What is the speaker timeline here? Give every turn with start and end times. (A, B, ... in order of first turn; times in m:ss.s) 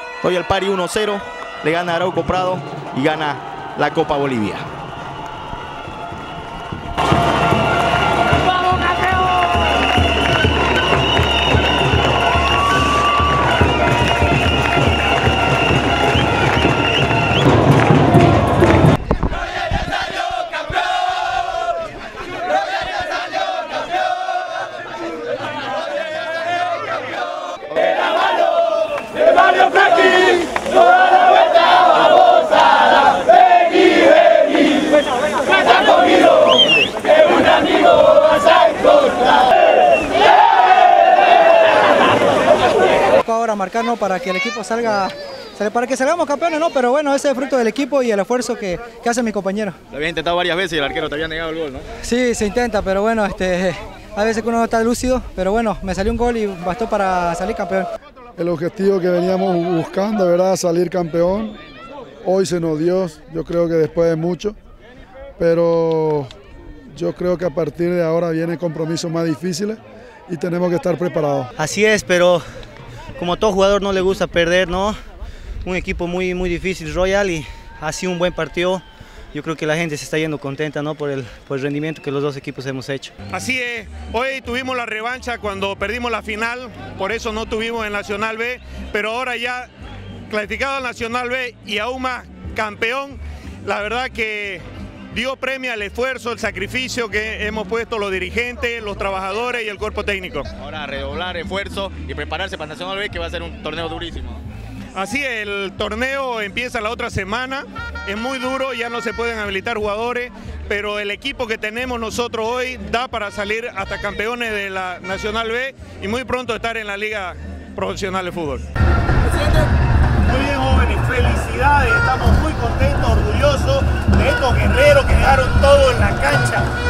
0:00.2-0:04.6 A
0:43.2-0:49.8 B
0:49.9-0:51.9 A
0:52.0-0:57.9 B
0:58.4-1:01.6 C
1:02.2-1:04.6 C
1:05.4-1:06.3 C
1:06.9-1:11.5 C
1:11.6-1:12.4 D
1:13.2-1:15.0 D
1:15.6-1:23.1 D
1:23.3-1:29.7 E
1:30.3-1:40.5 E
1:40.6-1:44.4 A
1:44.9-1:58.6 E
2:00.2-2:06.6 F